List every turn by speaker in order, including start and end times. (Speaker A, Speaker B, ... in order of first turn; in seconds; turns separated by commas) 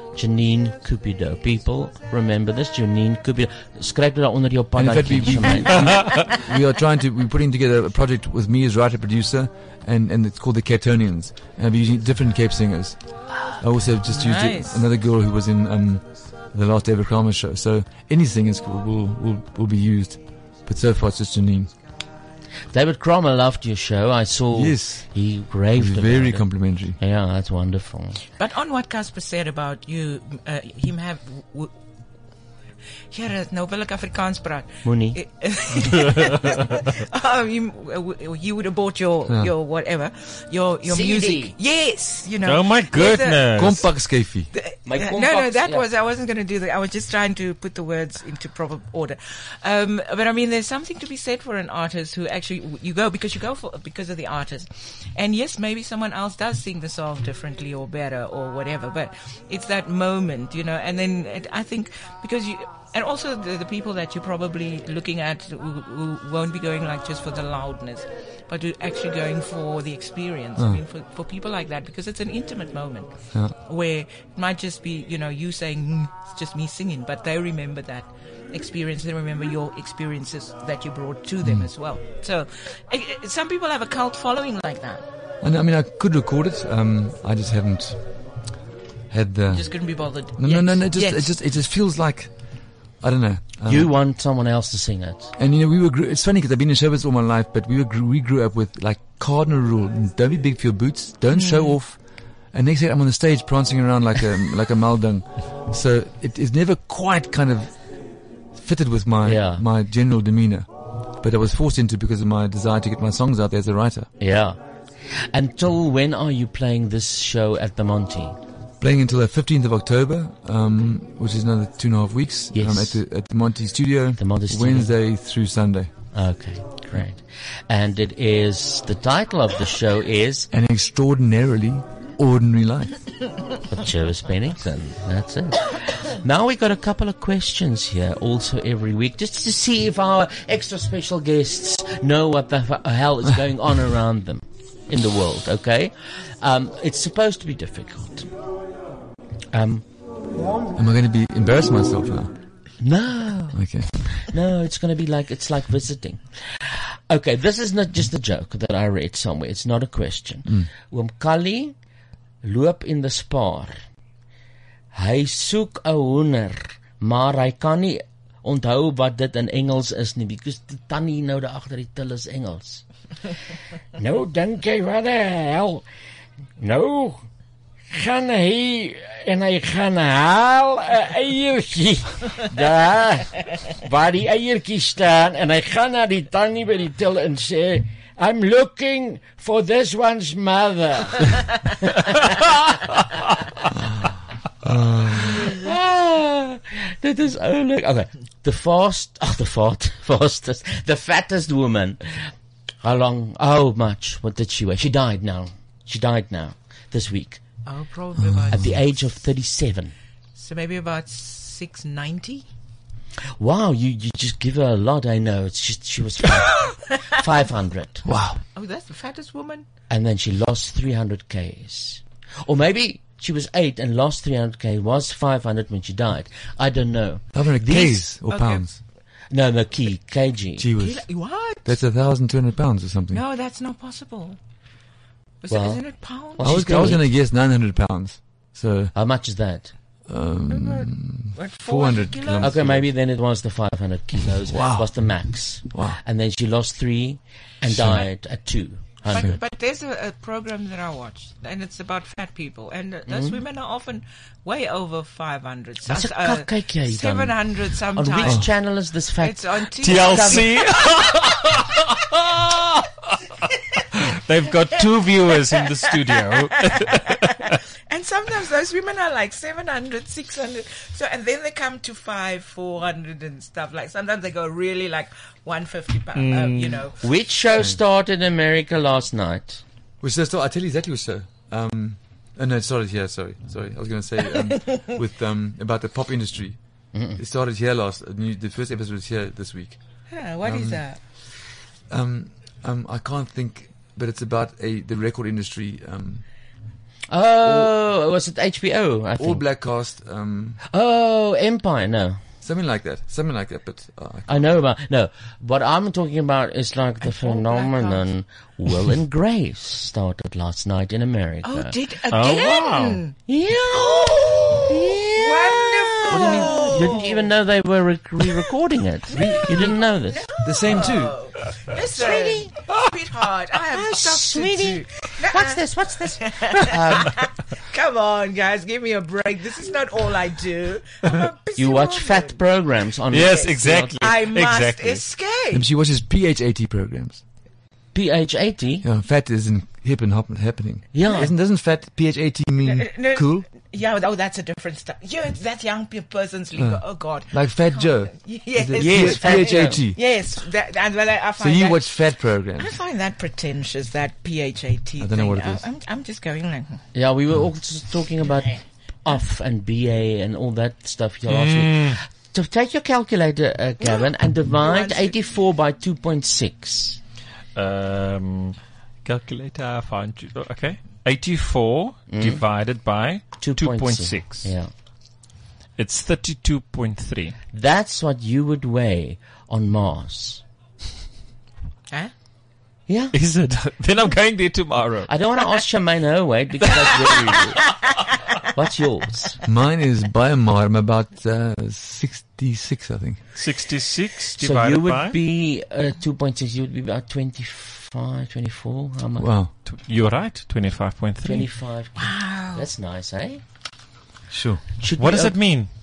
Speaker A: 0.1-6.1, Speaker B: 4.8-21.7, Speaker C: 14.1-14.8, Speaker A: 22.7-26.5, Speaker B: 24.5-25.1, Speaker B: 25.6-27.0, Speaker A: 27.0-28.2, Speaker C: 28.4-31.7, Speaker C: 33.1-43.7, Speaker A: 34.8-35.2, Speaker A: 40.9-41.6, Speaker D: 42.4-43.9, Speaker B: 43.5-44.5, Speaker C: 44.5-73.1, Speaker A: 44.9-45.9, Speaker C: 73.7-85.0, Speaker B: 81.4-81.7, Speaker B: 85.4-88.2, Speaker B: 89.1-93.9, Speaker C: 89.5-91.4, Speaker A: 93.7-95.3, Speaker B: 95.4-108.0, Speaker C: 101.3-101.8, Speaker B: 108.5-110.7, Speaker A: 109.2-109.6, Speaker B: 111.2-114.1, Speaker A: 114.2-114.6, Speaker A: 115.3-118.4, Speaker B: 118.8-125.9, Speaker A: 122.5-123.0, Speaker A: 124.2-125.0, Speaker A: 126.1-130.5, Speaker B: 130.5-132.9, Speaker A: 133.7-148.3, Speaker A: 149.5-149.9, Speaker B: 150.8-152.3, Speaker A: 152.8-153.7, Speaker B: 153.5-154.3, Speaker A: 154.2-161.8, Speaker A: 162.4-163.8, Speaker A: 164.9-172.8, Speaker A: 173.9-175.8, Speaker A: 176.6-177.2, Speaker A: 177.9-192.9, Speaker B: 194.6-195.6, Speaker A: 195.3-202.3, Speaker A: 202.8-207.5, Speaker C: 207.7-208.7, Speaker B: 208.2-208.8, Speaker A: 208.5-209.9, Speaker C: 210.4-212.4, Speaker A: 213.4-218.1, Speaker B: 218.0-218.4, Speaker C: 218.5-219.7, Speaker A: 219.9-228.1, Speaker B: 227.3-228.8, Speaker C: 228.1-228.7, Speaker A: 229.3-230.7, Speaker B: 230.6-231.1, Speaker C: 230.8-231.8, Speaker B: 231.6-233.2, Speaker C: 233.1-234.4, Speaker C: 235.4-237.0, Speaker A: 235.5-235.8, Speaker A: 236.4-237.1, Speaker B: 236.4-238.9, Speaker A: 238.9-239.7, Speaker B: 240.1-242.9, Speaker C: 240.5-242.7, Speaker A: 242.4-249.4, Speaker B: 244.3-245.0, Speaker B: 245.7-246.0, Speaker B: 247.7-248.1, Speaker C: 249.1-258.5, Speaker A: 253.1-253.4, Speaker A: 255.8-260.6, Speaker B: 258.2-258.5, Speaker C: 259.2-260.6, Speaker D: 259.8-262.9, Speaker D: 263.9-267.6, Speaker C: 266.2-277.0, Speaker D: 276.1-276.9, Speaker A: 277.0-279.6, Speaker B: 280.0-286.6, Speaker A: 286.9-287.2, Speaker B: 287.2-289.8, Speaker C: 290.1-291.0, Speaker B: 290.4-290.8, Speaker B: 291.9-296.2, Speaker A: 297.1-299.4, Speaker B: 297.4-297.7, Speaker B: 299.2-300.6, Speaker A: 300.6-302.2, Speaker B: 302.4-304.5, Speaker A: 304.3-311.8, Speaker C: 307.1-308.1, Speaker C: 311.4-313.1, Speaker D: 312.1-313.0, Speaker A: 313.3-320.3, Speaker C: 313.7-317.3, Speaker B: 319.1-319.8, Speaker C: 320.1-325.6, Speaker B: 320.4-321.2, Speaker A: 321.9-322.5, Speaker A: 323.7-327.2, Speaker C: 326.2-332.4, Speaker A: 331.6-334.0, Speaker D: 333.1-335.1, Speaker C: 334.0-335.7, Speaker B: 335.5-337.2, Speaker A: 337.9-338.9, Speaker B: 338.8-343.5, Speaker A: 340.9-341.3, Speaker C: 341.0-341.3, Speaker C: 342.6-356.8, Speaker B: 346.6-350.0, Speaker A: 348.8-349.9, Speaker B: 351.4-352.8, Speaker B: 355.0-355.6, Speaker A: 356.9-367.0, Speaker D: 361.3-362.0, Speaker C: 364.6-365.1, Speaker D: 367.6-374.5, Speaker A: 372.1-372.4, Speaker A: 373.4-374.7, Speaker D: 375.8-377.4, Speaker A: 377.5-380.4, Speaker A: 382.9-383.2, Speaker D: 383.1-385.1, Speaker A: 385.1-387.6, Speaker A: 388.5-389.4, Speaker B: 389.4-393.2, Speaker D: 393.4-395.2, Speaker A: 394.4-399.3, Speaker B: 399.2-399.5, Speaker D: 399.7-401.5, Speaker A: 401.2-403.4, Speaker C: 402.0-402.7, Speaker B: 404.3-404.6, Speaker A: 404.8-405.4, Speaker D: 404.9-405.7